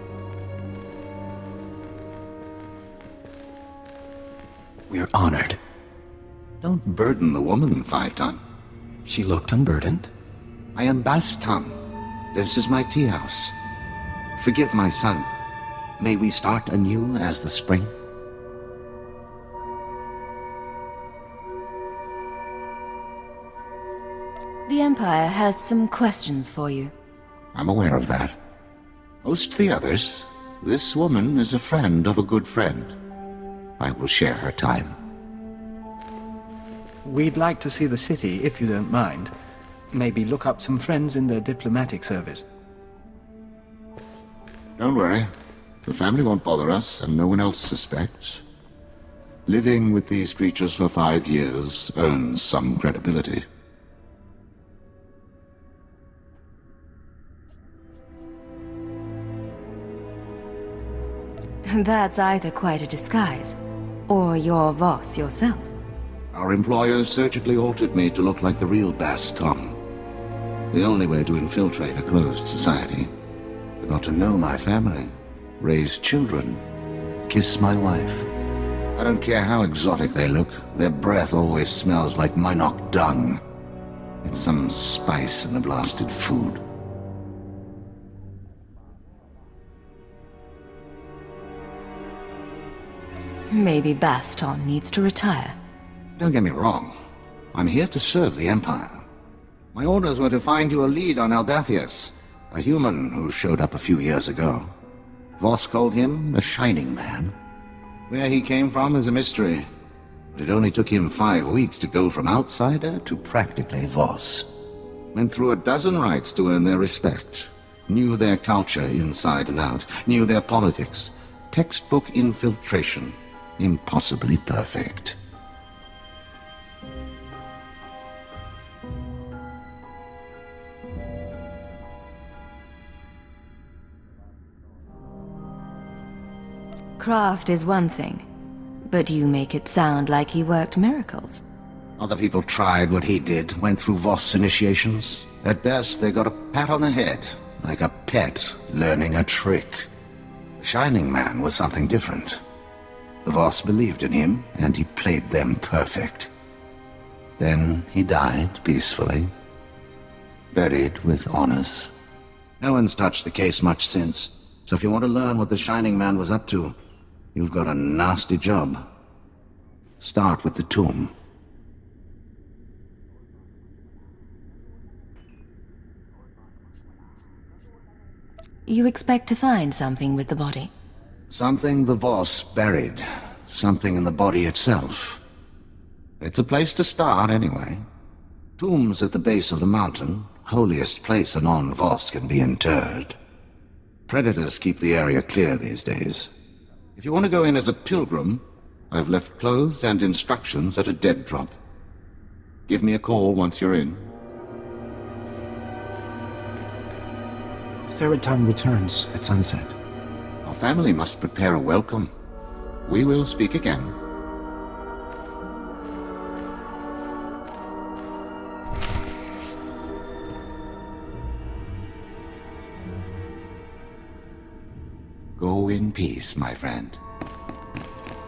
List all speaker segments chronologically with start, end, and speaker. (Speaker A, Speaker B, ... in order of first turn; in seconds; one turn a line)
Speaker A: 4.9-5.6
Speaker B: 6.6-8.4
Speaker C: 9.1-9.4
Speaker A: 9.1-10.0
Speaker B: 10.7-11.8
Speaker B: 12.3-13.5
Speaker B: 14.4-15.3
Speaker B: 16.0-17.9
Speaker D: 24.6-26.9
Speaker B: 27.5-28.4
Speaker B: 29.2-32.9
Speaker B: 33.8-34.9
Speaker C: 37.0-39.3
Speaker A: 37.4-39.1
Speaker C: 39.9-42.5
Speaker A: 40.0-42.4
Speaker B: 44.8-45.3
Speaker B: 45.9-48.4
Speaker B: 49.5-53.4
Speaker D: 61.6-65.7
Speaker B: 66.3-69.8
Speaker B: 70.7-73.1
Speaker B: 73.8-76.6
Speaker B: 77.3-78.2
Speaker B: 79.0-83.4
Speaker B: 84.2-86.6
Speaker D: 93.5-95.5
Speaker B: 96.2-96.9
Speaker B: 97.5-99.0
Speaker B: 99.7-104.7
Speaker B: 105.4-107.3
Speaker B: 108.1-109.7
Speaker B: 110.3-114.5
Speaker B: 115.1-125.2
Speaker D: 137.0-138.2
Speaker D: 138.9-141.4
Speaker B: 142.0-149.9
Speaker B: 150.6-152.4
Speaker B: 153.2-156.3
Speaker B: 157.4-159.3
Speaker B: 160.5-161.9
Speaker B: 162.6-166.7
Speaker B: 167.3-168.8
Speaker B: 170.0-171.1
Speaker D: 178.7-180.7
Speaker B: 181.3-185.2
Speaker B: 186.2-187.8
Speaker B: 188.6-193.2
Speaker B: 194.1-196.3
Speaker B: 197.0-201.6
Speaker B: 202.7-204.0
Speaker A: 207.9-209.7
Speaker B: 210.4-212.1
Speaker B: 212.8-213.9
Speaker B: 225.4-227.0